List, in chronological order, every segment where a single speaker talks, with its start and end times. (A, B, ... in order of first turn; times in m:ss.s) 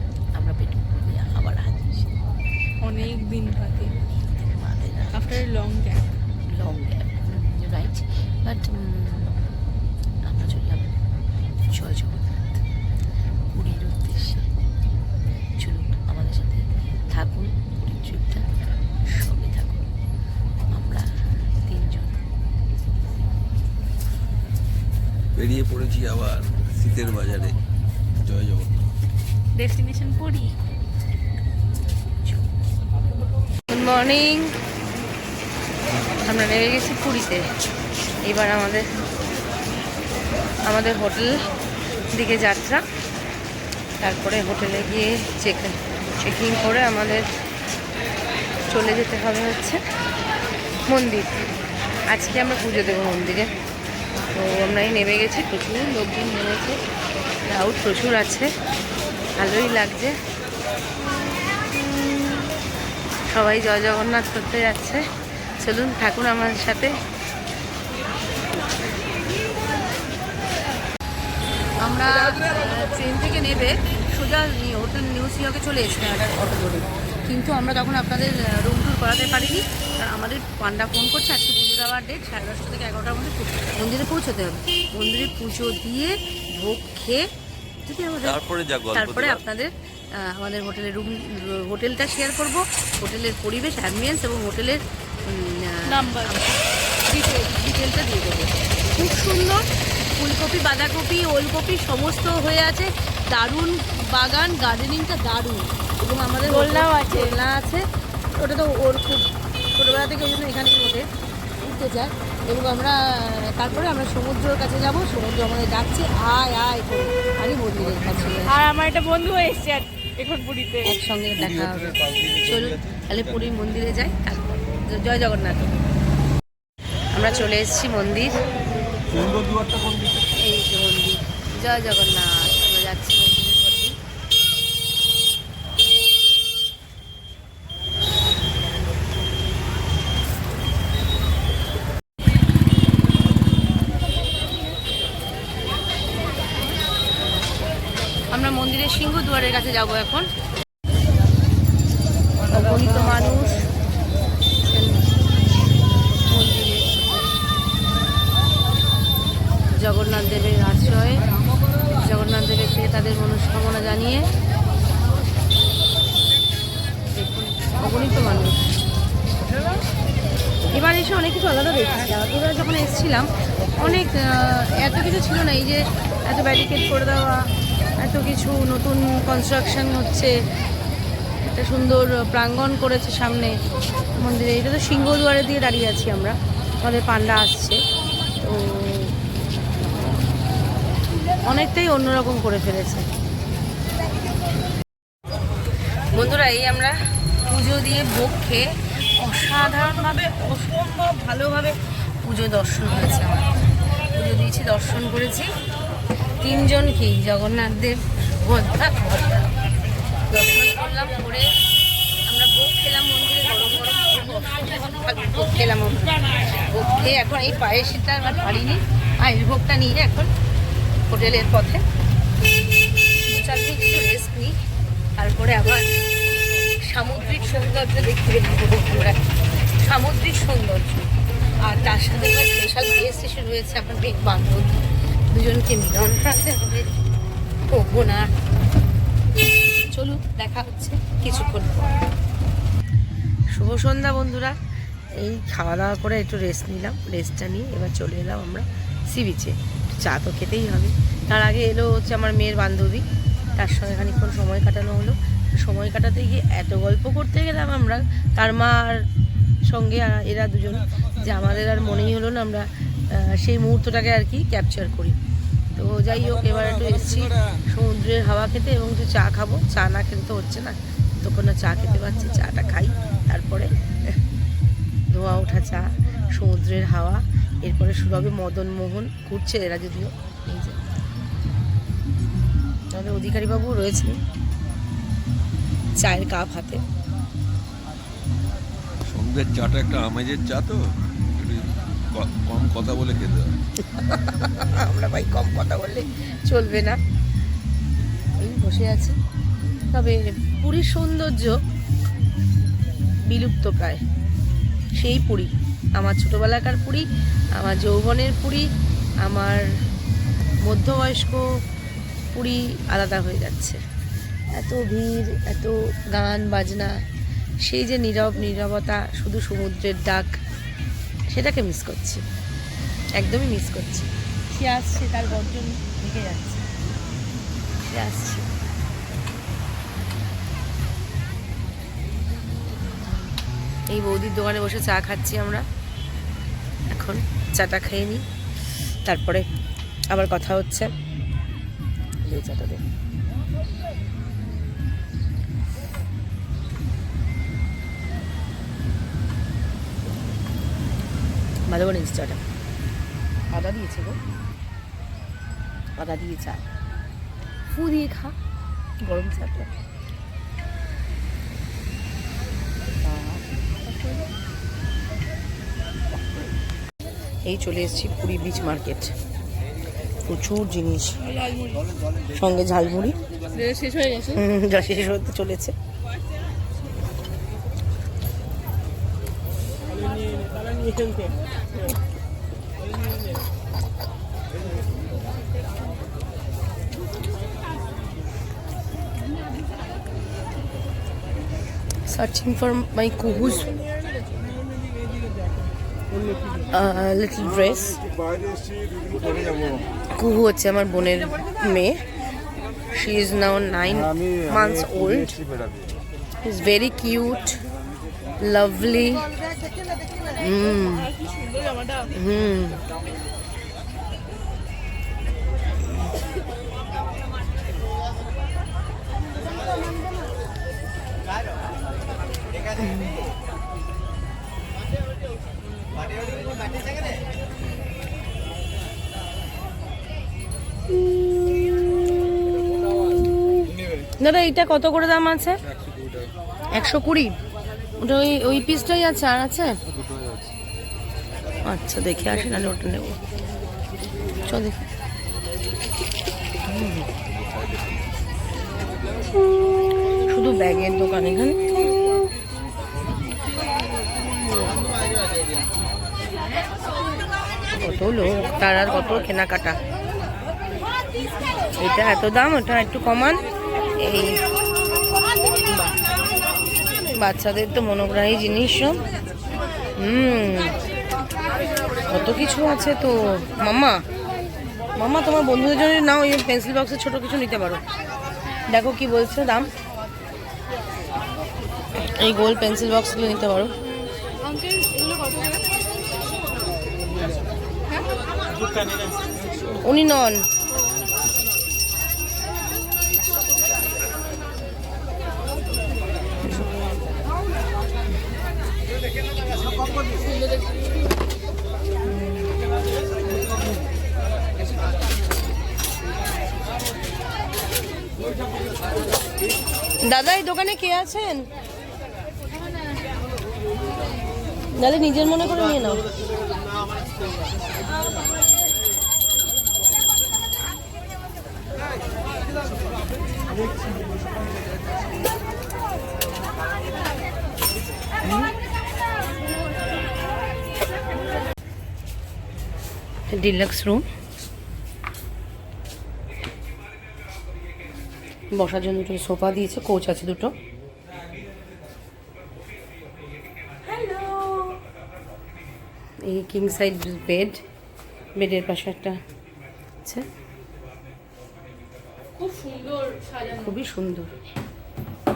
0:00.3-0:02.2 A
0:02.8-0:04.0 B
0:04.3-0:05.4 A
0:05.1-0:06.1 B
0:06.4-0:09.5 A
0:10.2-0:11.0 A
0:11.7-0:12.4 A
0:13.5-0:14.5 A
0:15.6-0:18.5 A
0:19.0-0:19.9 A
0:20.7-0:22.2 A
0:25.3-0:27.6 C
0:28.2-0:28.9 C
0:29.5-0:30.6 B
0:33.7-0:34.5 A
0:36.2-0:37.4 A
0:38.2-0:38.9 A
0:40.6-0:41.4 A
0:42.1-0:42.8 A
0:44.0-0:47.3 A
0:48.7-0:49.8 A
0:50.9-0:51.4 A
0:52.1-0:53.5 A
0:54.3-0:56.8 A
0:57.5-0:58.5 A
0:59.4-1:00.1 A
1:03.3-1:05.0 A
1:05.6-1:06.9 A
1:11.8-1:27.2 A
1:27.8-1:28.4 A
1:28.2-1:29.4 C
1:28.9-1:47.8 A
1:35.9-1:36.5 B
1:46.4-1:47.4 B
1:48.3-1:51.0 A
1:51.6-1:58.6 A
1:58.4-2:00.9 B
2:00.8-2:05.7 A
2:01.4-2:03.2 C
2:07.1-2:08.4 A
2:09.1-2:10.1 C
2:10.3-2:14.0 A
2:28.3-2:30.3 A
2:32.5-2:33.7 A
2:34.6-2:35.1 A
2:36.1-2:37.3 A
2:39.8-2:41.2 A
2:42.0-2:44.3 A
2:47.2-2:48.6 A
2:50.7-2:57.5 A
2:58.0-3:00.3 A
3:01.4-3:03.5 A
3:04.2-3:07.8 A
3:08.4-3:09.1 A
3:11.4-3:13.1 A
3:16.1-3:16.9 A
3:17.5-3:18.7 A
3:19.2-3:25.5 A
3:26.4-3:29.5 A
3:30.3-3:31.5 A
3:32.3-3:40.3 A
3:41.1-3:41.8 A
3:43.2-3:44.5 A
3:45.2-3:45.9 A
3:46.8-3:49.2 A
3:49.8-3:51.1 A
3:51.6-3:54.8 A
3:55.3-3:56.9 A
3:57.7-3:58.3 A
3:59.9-4:01.9 A
4:03.5-4:04.6 A
4:05.2-4:13.0 A
4:13.6-4:19.0 A
4:19.7-4:25.2 A
4:25.8-4:34.2 A
4:35.1-4:40.9 A
4:42.9-4:44.1 A
4:46.0-4:46.8 A
4:49.1-4:53.6 C
4:53.9-4:57.0 A
4:58.4-4:59.2 A
4:59.9-5:01.6 A
5:03.2-5:04.0 A
5:05.0-5:08.7 A
5:09.2-5:09.6 A
5:10.6-5:11.4 A
5:12.3-5:13.8 A
5:14.5-5:16.9 A
5:17.6-5:20.4 A
5:21.3-5:22.2 A
5:23.2-5:26.6 A
5:27.9-5:28.5 A
5:33.0-5:33.3 A
5:33.9-5:35.6 A
5:36.9-5:38.2 A
5:39.0-5:39.4 A
5:40.1-5:40.9 A
5:42.2-5:42.8 A
5:51.7-5:52.4 A
5:53.5-5:54.2 A
5:56.0-5:56.6 A
5:57.7-5:58.4 A
5:59.1-5:59.7 A
6:03.0-6:03.4 A
6:07.4-6:09.1 A
6:10.2-6:11.2 A
6:11.2-6:11.9 B
6:12.3-6:13.2 A
6:13.5-6:14.4 B
6:14.3-6:15.7 A
6:32.1-6:33.8 A
6:36.7-6:38.0 A
6:40.1-6:42.0 A
6:42.9-6:45.4 A
6:46.4-6:47.6 A
6:48.4-6:49.3 A
6:50.4-6:51.1 A
6:51.2-6:52.1 B
6:52.1-6:52.8 A
7:02.8-7:03.1 A
7:14.2-7:15.6 A
7:15.6-7:16.3 C
7:16.7-7:17.4 A
7:18.0-7:19.8 A
7:21.6-7:23.2 A
7:24.4-7:24.8 A
7:26.7-7:27.1 A
7:27.2-7:28.1 C
7:30.3-7:32.2 A
7:37.7-7:39.8 A
7:41.8-7:43.4 A
7:44.0-7:44.4 A
7:45.7-7:46.0 A
7:47.1-7:49.0 A
7:50.0-7:50.8 A
7:52.1-7:54.0 A
7:55.0-7:57.8 A
7:58.7-7:59.7 A
8:02.0-8:03.7 A
8:04.4-8:05.5 B
8:09.5-8:09.8 C
8:09.8-8:10.5 A
8:22.1-8:22.5 A
8:30.0-8:31.5 A
8:34.8-8:36.0 A
8:48.2-8:48.5 A
8:53.3-8:54.0 A
8:58.5-9:00.5 A
9:03.8-9:04.8 B
9:06.2-9:07.6 A
9:08.4-9:09.2 A
9:12.4-9:13.8 B
9:13.5-9:14.3 A